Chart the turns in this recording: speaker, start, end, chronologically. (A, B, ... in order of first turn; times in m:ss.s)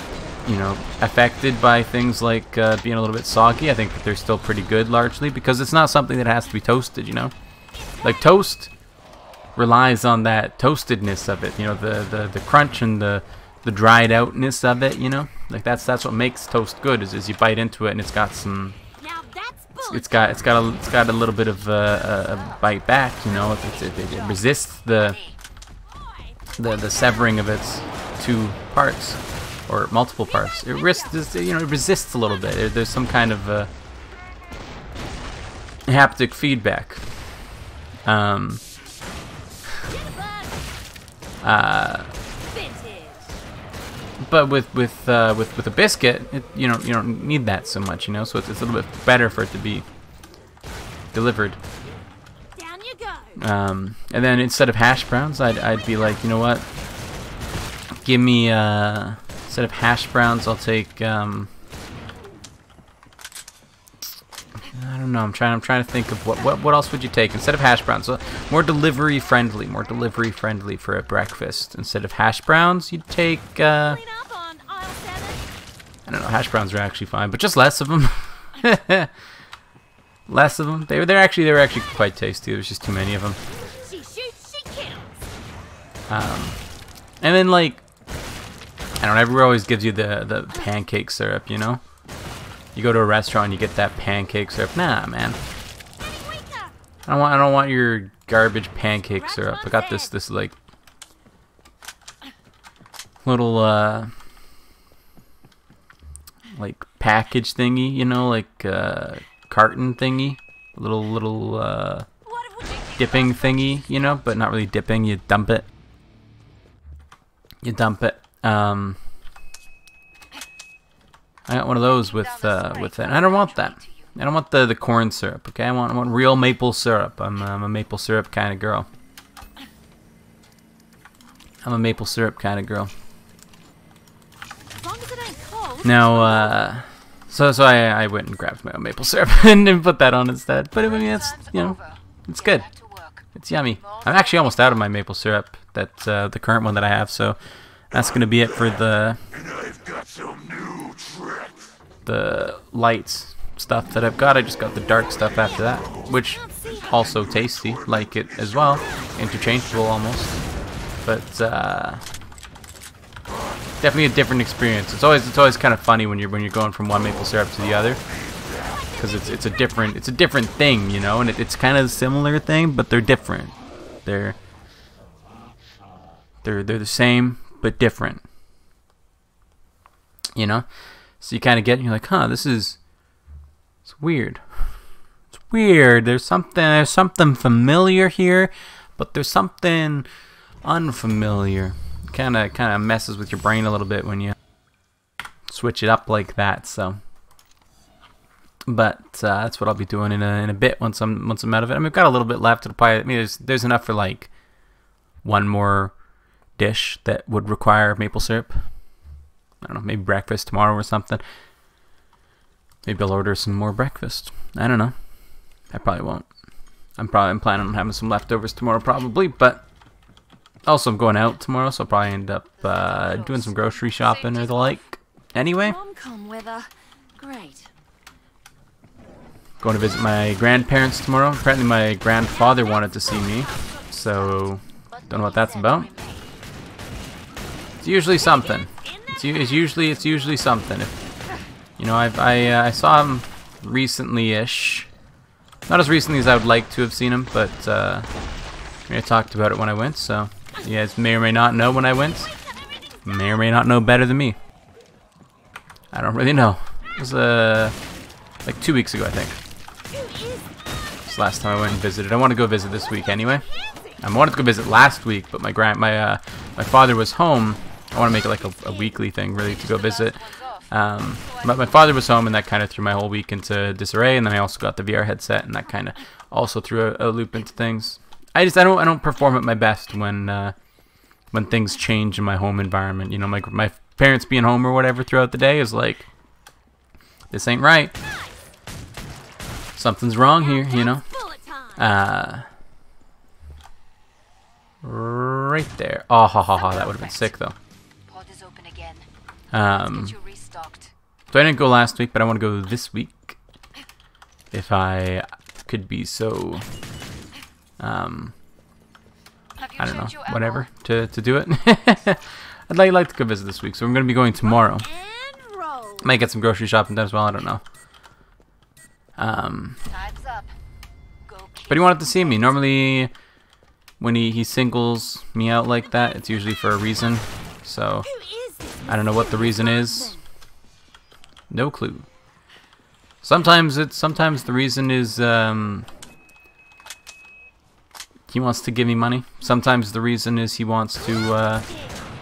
0:00.4-0:07.3 A
0:08.0-0:08.7 A
0:09.6-0:18.8 A
0:19.0-0:20.6 B
0:19.8-0:25.2 A
0:22.0-0:25.4 C
0:25.9-0:27.3 B
0:26.6-0:33.7 A
0:30.2-0:31.2 B
0:35.9-0:37.3 A
0:38.0-0:38.6 A
0:39.8-0:40.6 B
0:41.4-0:42.1 A
0:42.4-0:43.4 B
0:44.2-0:49.9 A
0:51.1-0:51.6 A
0:52.6-0:53.4 B
0:53.4-0:56.7 A
0:58.0-1:01.5 A
1:04.7-1:14.0 A
1:13.6-1:15.5 B
1:16.1-1:19.1 A
1:20.3-1:23.4 A
1:23.5-1:25.3 B
1:26.1-1:26.6 A
1:27.2-1:27.8 A
1:29.0-1:31.8 A
1:32.8-1:35.4 A
1:36.0-1:36.7 B
1:37.1-1:40.6 A
1:39.1-1:40.2 B
1:43.2-1:44.1 A
1:46.5-1:52.1 A
1:52.2-1:53.3 B
1:52.6-1:54.3 C
1:53.0-1:55.7 A
1:57.6-1:59.0 A
2:01.5-2:08.9 A
2:01.7-2:04.2 C
2:11.6-2:12.9 A
2:14.7-2:16.6 B
2:15.8-2:22.7 A
2:20.8-2:25.0 C
2:23.4-2:27.4 A
2:27.9-2:29.2 A
2:32.0-2:40.4 A
2:36.2-2:37.1 B
2:41.0-2:42.1 A
2:43.8-2:48.0 A
2:48.6-2:49.9 B
2:49.0-2:54.4 A
2:56.4-2:58.2 A
3:00.4-3:02.8 A
3:03.9-3:04.8 A
3:05.3-3:10.1 A
3:10.6-3:14.4 A
3:15.5-3:17.0 A
3:18.7-3:24.3 A
3:25.2-3:26.0 A
3:26.6-3:28.7 A
3:29.6-3:31.2 A
3:32.8-3:35.0 A
3:35.7-3:36.3 A
3:37.0-3:39.7 A
3:40.7-3:45.8 A
3:41.9-3:44.9 C
3:45.6-3:47.7 B
3:49.6-3:55.9 A
3:52.2-3:54.3 B
3:54.2-3:56.3 C
3:57.8-4:01.0 A
3:58.5-4:00.2 B
4:01.8-4:04.9 A
4:05.7-4:08.1 A
4:08.9-4:12.3 A
4:13.0-4:14.4 A
4:15.9-4:17.8 A
4:18.4-4:19.4 A
4:19.9-4:20.8 B
4:21.1-4:23.5 A
4:23.2-4:24.0 B
4:24.0-4:40.6 A
4:28.0-4:32.2 C
4:41.3-4:46.1 A
4:47.3-4:47.9 A
4:49.8-4:51.1 A
4:50.3-4:51.9 B
4:51.8-4:52.5 A
4:54.8-4:57.6 A
4:56.5-4:57.4 C
4:58.1-4:59.1 C
4:59.5-5:00.2 A
4:59.6-5:00.9 C
5:01.3-5:03.4 A
5:04.5-5:06.7 A
5:07.8-5:08.4 A
5:09.6-5:10.7 C
5:09.8-5:14.9 A
5:14.4-5:16.1 B
5:16.0-5:17.6 A
5:19.2-5:19.8 A
5:19.8-5:20.6 C
5:21.2-5:22.6 C
5:21.7-5:23.1 A
5:24.0-5:28.1 A
5:28.0-5:30.2 B
5:28.9-5:30.2 A
5:31.5-5:32.1 A
5:33.2-5:35.9 A
5:38.3-5:41.7 A
5:41.7-5:42.0 B